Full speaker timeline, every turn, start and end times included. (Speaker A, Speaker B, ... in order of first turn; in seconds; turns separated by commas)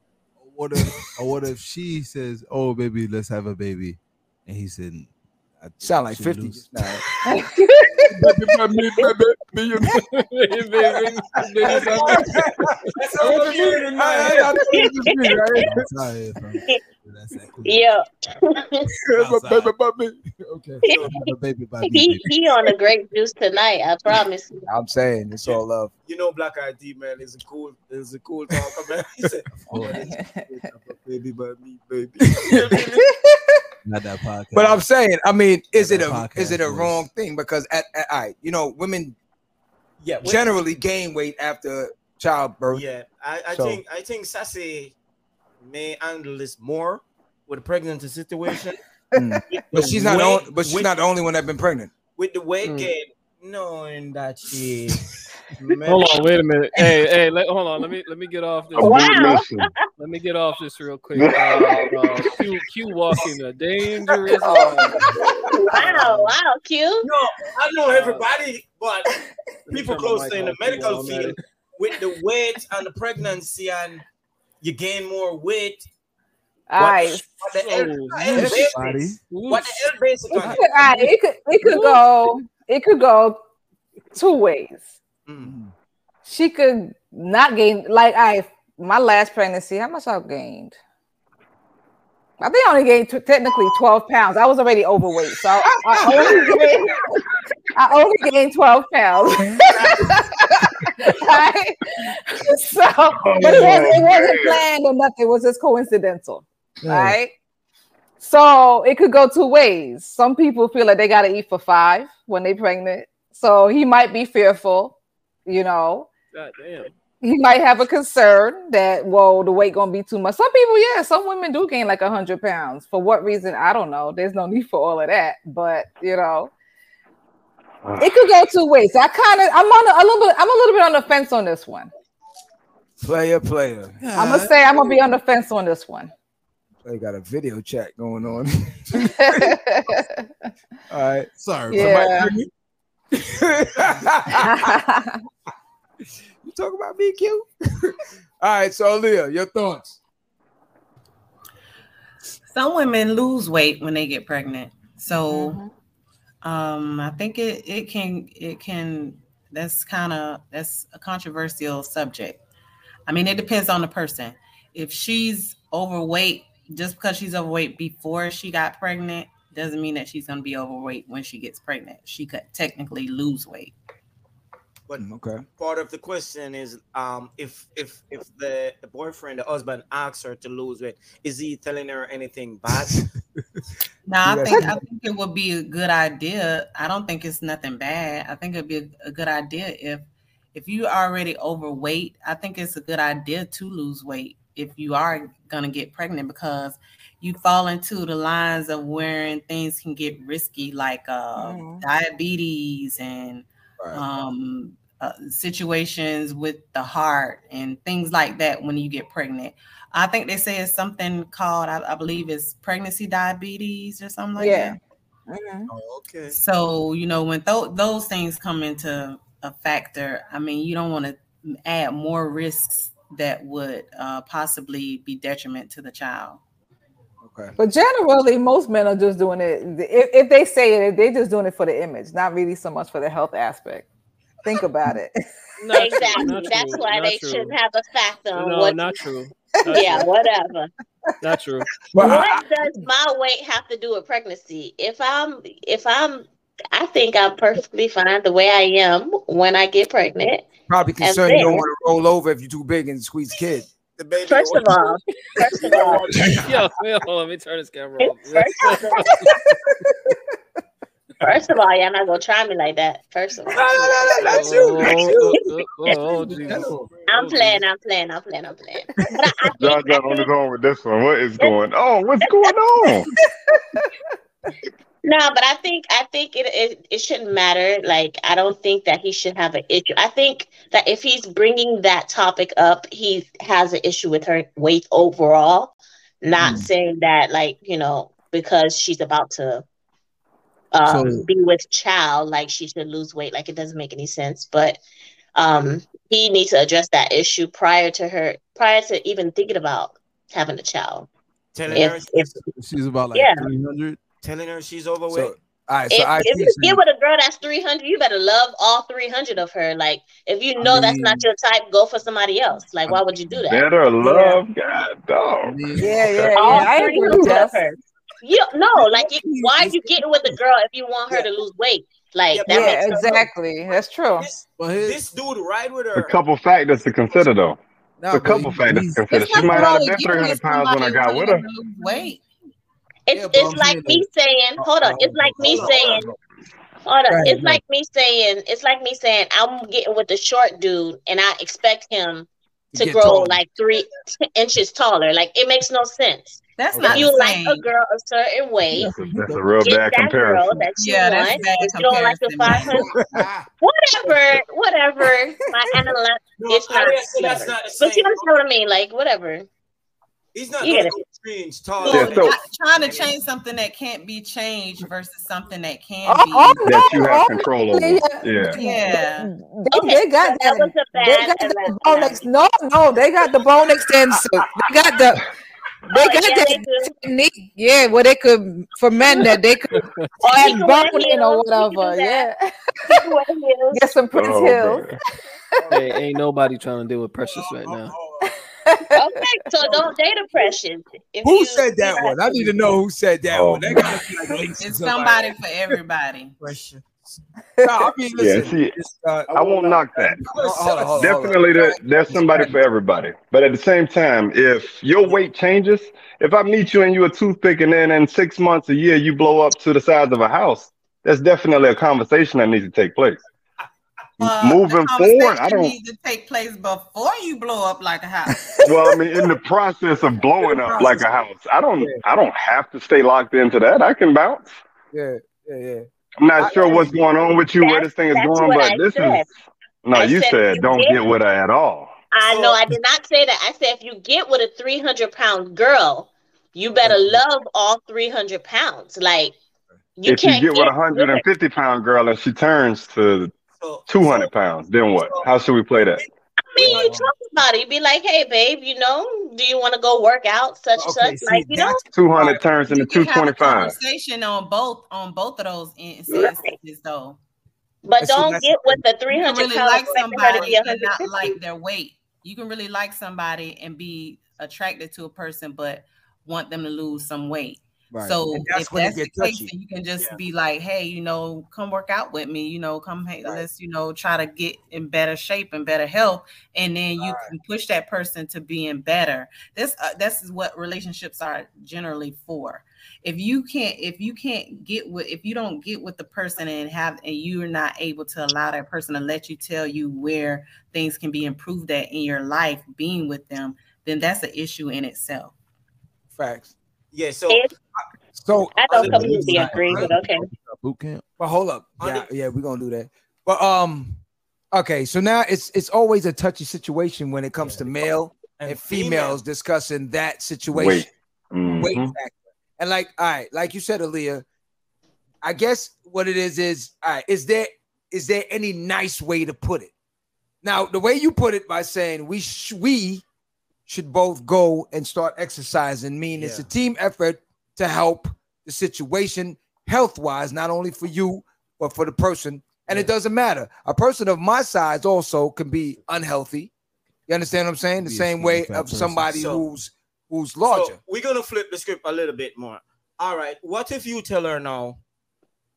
Speaker A: 0.4-7.0, Speaker B: 0.7-1.1, Speaker B: 5.8-7.0, Speaker C: 7.2-8.3, Speaker B: 8.1-10.1, Speaker A: 9.6-10.0, Speaker D: 10.2-12.3, Speaker E: 11.6-12.0, Speaker B: 11.7-16.2, Speaker F: 11.8-12.2, Speaker E: 13.0-14.8, Speaker F: 13.2-15.6, Speaker A: 15.5-17.8, Speaker F: 17.6-18.9, Speaker A: 19.1-19.9, Speaker B: 19.1-20.8, Speaker A: 20.8-22.3, Speaker F: 21.8-24.7, Speaker B: 24.7-25.9, Speaker E: 25.4-33.1, Speaker A: 29.5-30.2, Speaker C: 29.8-30.6, Speaker B: 32.5-32.8, Speaker A: 33.9-34.8, Speaker B: 34.5-39.2, Speaker A: 35.7-37.0, Speaker E: 40.0-40.6, Speaker B: 40.2-42.8, Speaker E: 42.7-45.0, Speaker B: 43.5-43.8, Speaker E: 45.6-48.8, Speaker C: 49.1-49.4, Speaker B: 49.1-51.9, Speaker E: 49.5-51.0, Speaker E: 52.2-56.1, Speaker D: 52.6-52.9, Speaker D: 55.9-59.1, Speaker G: 58.8-59.7, Speaker F: 58.8-59.6, Speaker D: 60.0-65.0, Speaker G: 61.1-62.3, Speaker C: 64.4-65.0, Speaker F: 65.5-67.1, Speaker D: 65.7-66.3, Speaker E: 67.0-69.2, Speaker D: 67.9-68.2, Speaker D: 69.7-71.4, Speaker E: 69.7-74.0, Speaker E: 74.6-75.9, Speaker C: 76.7-77.2, Speaker E: 76.8-80.7, Speaker D: 77.6-78.7, Speaker A: 78.3-79.2, Speaker D: 79.3-79.8, Speaker C: 80.3-83.4, Speaker C: 84.1-84.9, Speaker E: 85.3-85.5, Speaker A: 85.4-85.7, Speaker C: 86.3-90.8, Speaker C: 92.4-97.2, Speaker B: 95.9-96.6, Speaker C: 97.8-107.3, Speaker G: 103.2-104.6, Speaker B: 103.4-103.9, Speaker A: 106.8-107.1, Speaker C: 108.2-116.1, Speaker D: 116.3-116.9, Speaker C: 117.2-126.5, Speaker G: 127.8-128.2, Speaker C: 128.0-131.9, Speaker B: 133.0-133.9, Speaker A: 134.0-135.0, Speaker C: 134.2-136.1, Speaker B: 136.8-139.6, Speaker C: 139.1-140.3, Speaker B: 140.9-142.3, Speaker A: 141.4-142.5, Speaker C: 141.7-142.3, Speaker B: 143.2-144.7, Speaker C: 144.4-145.2, Speaker B: 146.4-150.0, Speaker H: 152.5-155.6, Speaker C: 155.3-155.7, Speaker H: 156.4-162.4, Speaker H: 163.1-173.8, Speaker B: 175.0-175.4, Speaker E: 175.6-183.1, Speaker H: 184.1-214.8, Speaker B: 184.2-184.8, Speaker C: 201.4-201.8, Speaker C: 214.4-214.8, Speaker C: 215.3-215.7, Speaker E: 215.7-216.4, Speaker H: 216.3-226.4, Speaker B: 227.2-227.6, Speaker C: 227.6-233.9, Speaker C: 234.4-235.3, Speaker D: 235.6-237.6, Speaker F: 235.7-238.9, Speaker D: 238.3-240.1, Speaker C: 239.6-239.8, Speaker F: 239.7-240.7, Speaker D: 241.2-241.7, Speaker B: 241.9-242.4, Speaker F: 242.0-250.5, Speaker B: 250.7-253.7, Speaker F: 251.0-251.7, Speaker E: 254.0-255.0, Speaker F: 254.3-256.1, Speaker E: 255.5-256.4, Speaker D: 256.4-258.7, Speaker F: 258.0-259.2, Speaker F: 261.2-263.9, Speaker E: 263.6-265.1, Speaker B: 263.6-265.3, Speaker D: 264.2-267.6, Speaker A: 266.2-266.9, Speaker B: 266.3-266.8, Speaker F: 267.1-270.3, Speaker G: 269.6-273.1, Speaker F: 272.3-272.5, Speaker C: 273.1-273.9, Speaker F: 275.0-289.6, Speaker A: 286.4-286.7, Speaker F: 290.7-294.8, Speaker A: 290.9-291.2, Speaker F: 295.4-301.1, Speaker E: 301.5-302.3, Speaker F: 301.7-302.4, Speaker A: 302.5-304.0, Speaker F: 303.1-303.4, Speaker E: 304.2-305.4, Speaker B: 305.1-306.8, Speaker F: 305.9-314.3, Speaker B: 310.6-311.3, Speaker G: 313.5-316.6, Speaker A: 315.4-317.4, Speaker C: 315.8-317.7, Speaker F: 316.3-323.3, Speaker A: 319.0-319.9, Speaker E: 322.3-323.2, Speaker C: 322.5-324.3, Speaker E: 324.2-326.1, Speaker A: 324.6-325.0, Speaker G: 325.9-331.5, Speaker B: 328.0-329.5, Speaker A: 328.1-328.9, Speaker H: 329.1-332.2, Speaker F: 333.1-336.1, Speaker B: 333.1-334.1, Speaker B: 334.6-336.2, Speaker E: 335.4-336.0, Speaker F: 336.9-348.9, Speaker B: 337.1-337.6, Speaker B: 342.7-343.4, Speaker H: 346.6-347.7, Speaker B: 346.7-347.1, Speaker G: 348.8-350.6, Speaker F: 349.6-352.9, Speaker H: 350.7-352.8, Speaker B: 352.9-353.2, Speaker A: 353.0-353.4, Speaker F: 353.6-359.5, Speaker E: 356.4-358.4, Speaker E: 360.3-363.2, Speaker F: 360.6-361.0, Speaker H: 361.8-366.9, Speaker B: 361.9-362.3, Speaker C: 366.1-375.2, Speaker G: 366.6-368.6, Speaker H: 368.5-369.3, Speaker F: 369.7-372.3, Speaker F: 375.9-376.9, Speaker C: 375.9-383.0, Speaker A: 379.1-380.1, Speaker F: 380.2-382.3, Speaker F: 382.9-383.8, Speaker C: 383.7-384.9, Speaker G: 384.1-385.0, Speaker D: 385.7-387.9, Speaker E: 387.9-388.3, Speaker C: 388.2-389.2, Speaker F: 389.0-392.8, Speaker B: 391.2-395.3, Speaker G: 393.3-393.6, Speaker H: 394.6-396.3, Speaker E: 396.4-397.2, Speaker B: 397.6-399.5, Speaker G: 398.2-398.7, Speaker G: 399.3-400.2, Speaker E: 399.4-401.4, Speaker B: 400.2-402.6, Speaker G: 400.9-413.2, Speaker H: 414.2-418.4, Speaker G: 414.3-415.8, Speaker C: 418.3-419.2, Speaker G: 418.6-424.5, Speaker B: 420.4-421.1, Speaker B: 424.9-426.9, Speaker G: 426.2-429.2, Speaker F: 426.4-426.9, Speaker F: 427.6-429.3, Speaker G: 429.8-431.9, Speaker F: 429.9-431.0, Speaker F: 432.1-439.4, Speaker E: 432.3-432.5, Speaker B: 436.8-437.2, Speaker F: 440.0-441.2, Speaker G: 440.1-443.3, Speaker E: 443.6-444.3, Speaker G: 443.9-446.0, Speaker E: 444.9-445.3, Speaker E: 445.9-447.1, Speaker F: 446.5-451.9, Speaker B: 450.8-451.8, Speaker G: 451.9-453.8, Speaker H: 452.1-457.2, Speaker F: 456.1-456.5, Speaker F: 457.8-461.4, Speaker B: 458.0-458.8, Speaker H: 459.1-495.4, Speaker B: 467.9-469.5, Speaker B: 477.0-477.3, Speaker B: 496.1-496.5, Speaker E: 496.9-497.4, Speaker B: 497.8-500.0, Speaker F: 498.6-500.3, Speaker E: 498.6-499.6, Speaker A: 498.9-501.0, Speaker B: 501.2-510.9, Speaker E: 501.8-502.1, Speaker E: 508.4-509.2, Speaker G: 510.5-511.9, Speaker B: 511.5-514.2, Speaker B: 515.2-519.7, Speaker B: 520.4-523.0, Speaker B: 523.7-536.5, Speaker E: 526.2-526.5, Speaker B: 537.1-540.8, Speaker A: 537.8-539.3, Speaker E: 539.1-539.5, Speaker E: 540.5-544.8